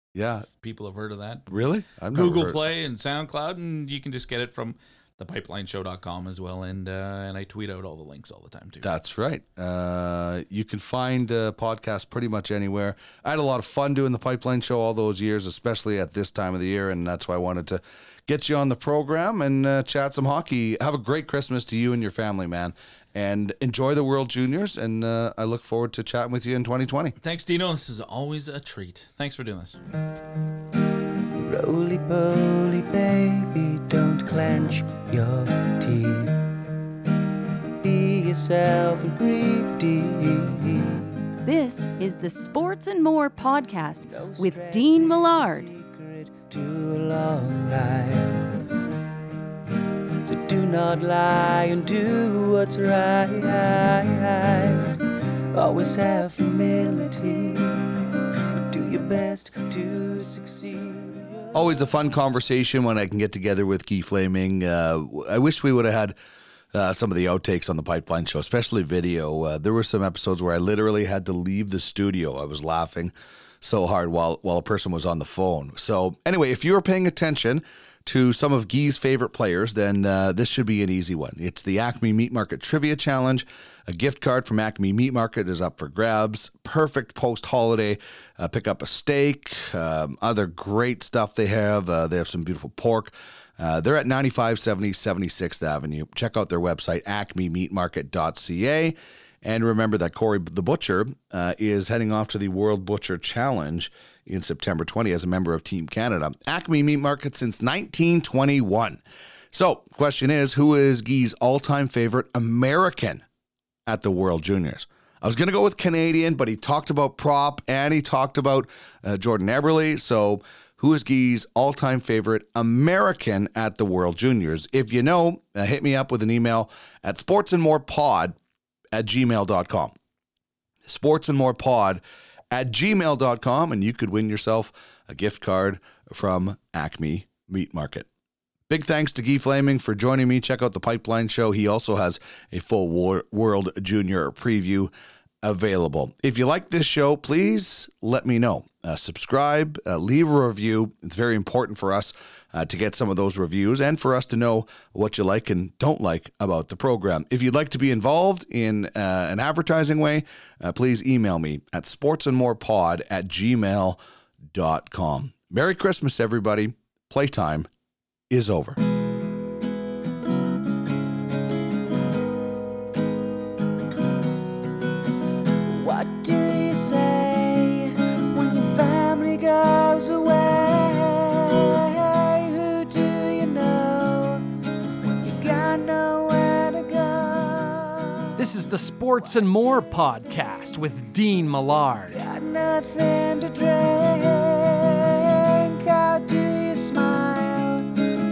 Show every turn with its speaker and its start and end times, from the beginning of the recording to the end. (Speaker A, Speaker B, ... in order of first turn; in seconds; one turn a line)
Speaker A: 0.1-0.5
Speaker B: 0.5-1.5
Speaker A: 1.5-2.6
Speaker B: 2.1-8.9
Speaker A: 8.8-27.1
Speaker B: 27.2-29.8
Speaker C: 31.4-36.5
Speaker C: 37.8-41.1
Speaker D: 41.4-45.7
Speaker C: 44.0-48.5
Speaker C: 50.2-55.0
Speaker C: 55.5-57.8
Speaker C: 58.5-61.9
Speaker A: 61.5-66.2
Speaker A: 66.7-109.0
Speaker A: 109.5-113.2
Speaker A: 113.8-128.3
Speaker A: 128.9-129.9
Speaker A: 130.8-138.1
Speaker A: 138.7-167.7
Speaker A: 168.3-168.8
Speaker C: 175.7-184.4
Speaker C: 185.2-189.9
Speaker E: 188.4-192.2
Speaker C: 192.1-197.9